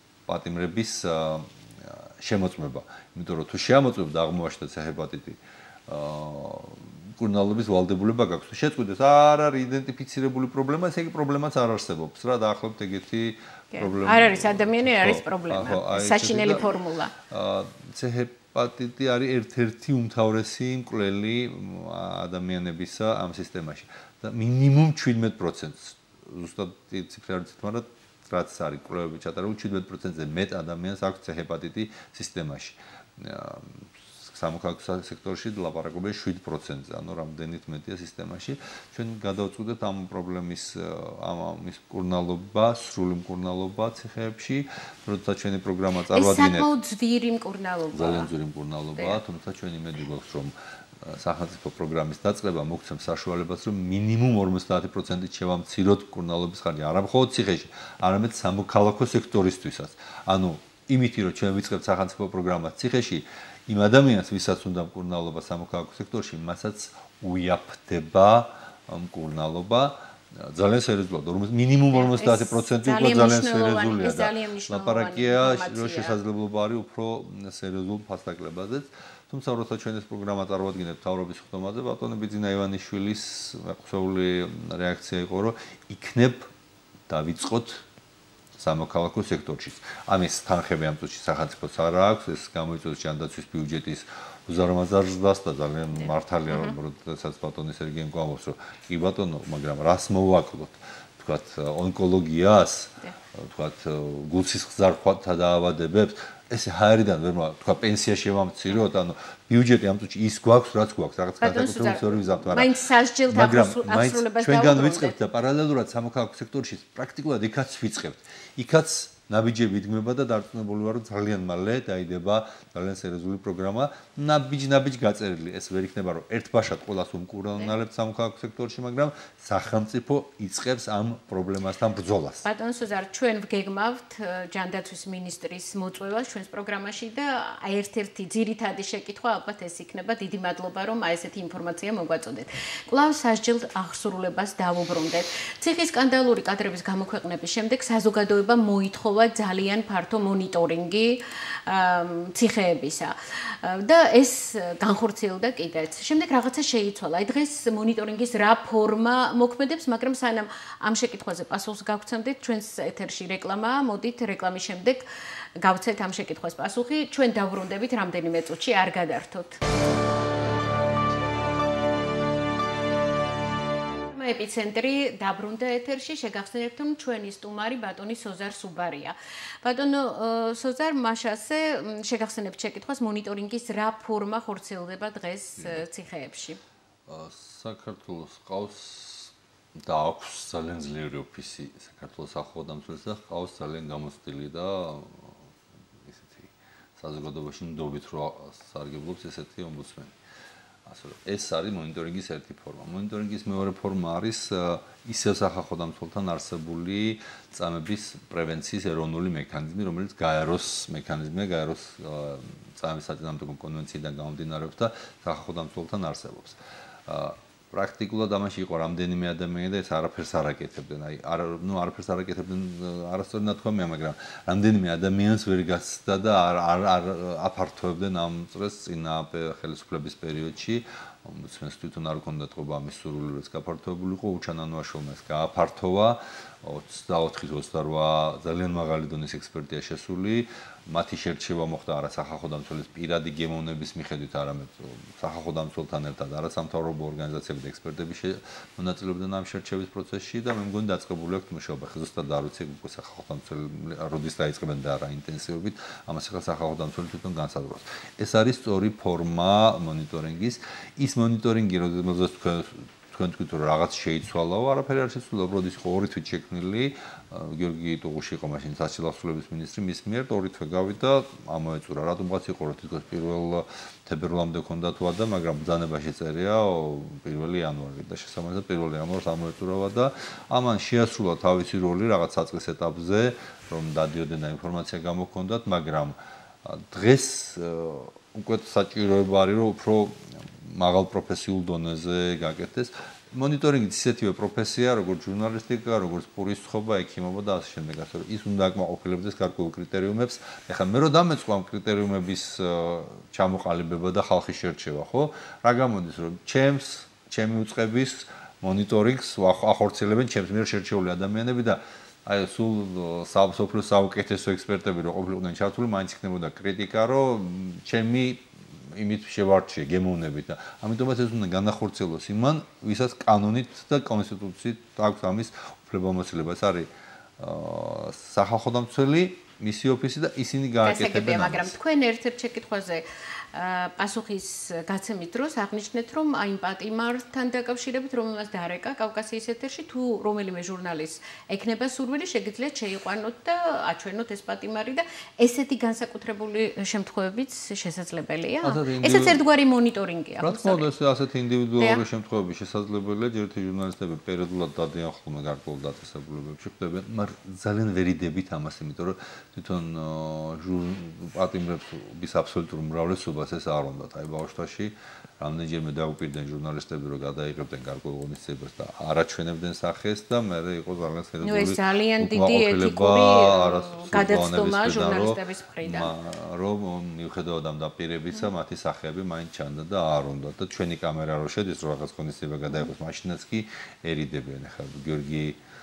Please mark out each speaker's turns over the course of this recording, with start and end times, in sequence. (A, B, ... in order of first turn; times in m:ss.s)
0:00.3-0:16.6 A
0:13.7-0:17.1 B
0:17.3-0:46.7 A
0:46.1-0:48.3 B
0:47.9-1:26.5 A
1:11.9-1:16.1 B
1:27.1-1:27.8 A
1:28.6-1:52.7 A
1:36.0-1:36.8 B
1:51.4-1:55.1 B
1:53.3-2:12.4 A
2:12.4-2:45.0 B
2:45.6-2:49.6 B
2:54.1-3:06.6 B
3:05.6-3:05.8 A
3:07.1-3:15.4 A
3:16.0-3:20.2 A
3:20.8-5:31.7 A
5:30.8-5:50.8 B
5:48.6-5:49.4 A
5:50.4-6:25.6 A
6:11.4-6:16.1 B